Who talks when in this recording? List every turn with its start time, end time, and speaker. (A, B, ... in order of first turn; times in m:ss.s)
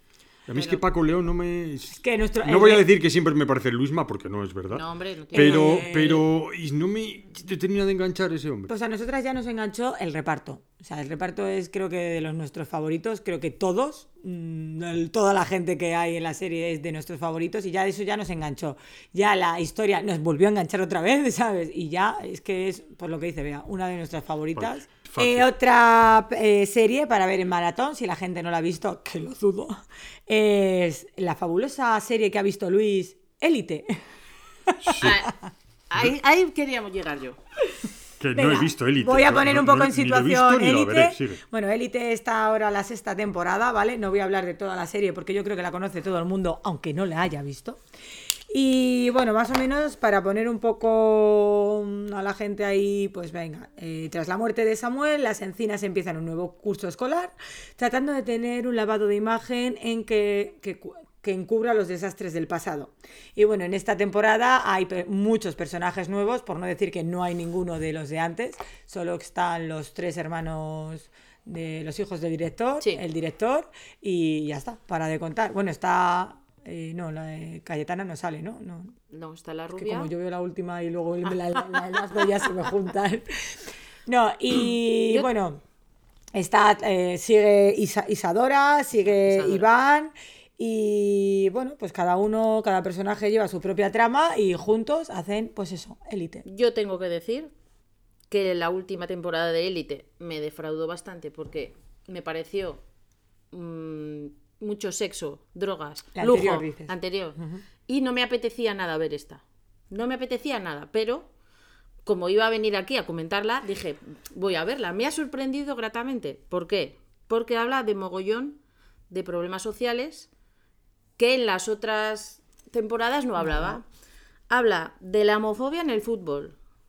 0:00.5-0:08.7 A
0:00.6-0:00.8 B
0:01.9-0:02.9 C
0:04.7-0:06.0 B
0:05.3-0:06.2 C
0:08.7-0:34.0 C
0:24.6-0:25.5 A
0:34.8-0:35.2 A
0:35.0-0:35.3 B
0:35.9-0:37.4 B
0:38.2-0:41.4 A
0:38.4-0:47.8 C
0:48.5-1:19.0 C
1:19.1-1:20.1 B
1:19.8-1:23.6 C
1:24.1-1:25.6 C
1:26.3-1:36.4 C
1:29.2-1:29.7 B
1:36.5-1:37.5 B
1:38.3-1:42.8 B
1:43.5-1:51.3 B
1:46.2-1:47.6 C
1:52.0-1:58.6 B
1:59.1-2:00.3 B
2:01.2-2:03.8 B
2:03.4-2:03.8 C
2:04.5-2:06.6 B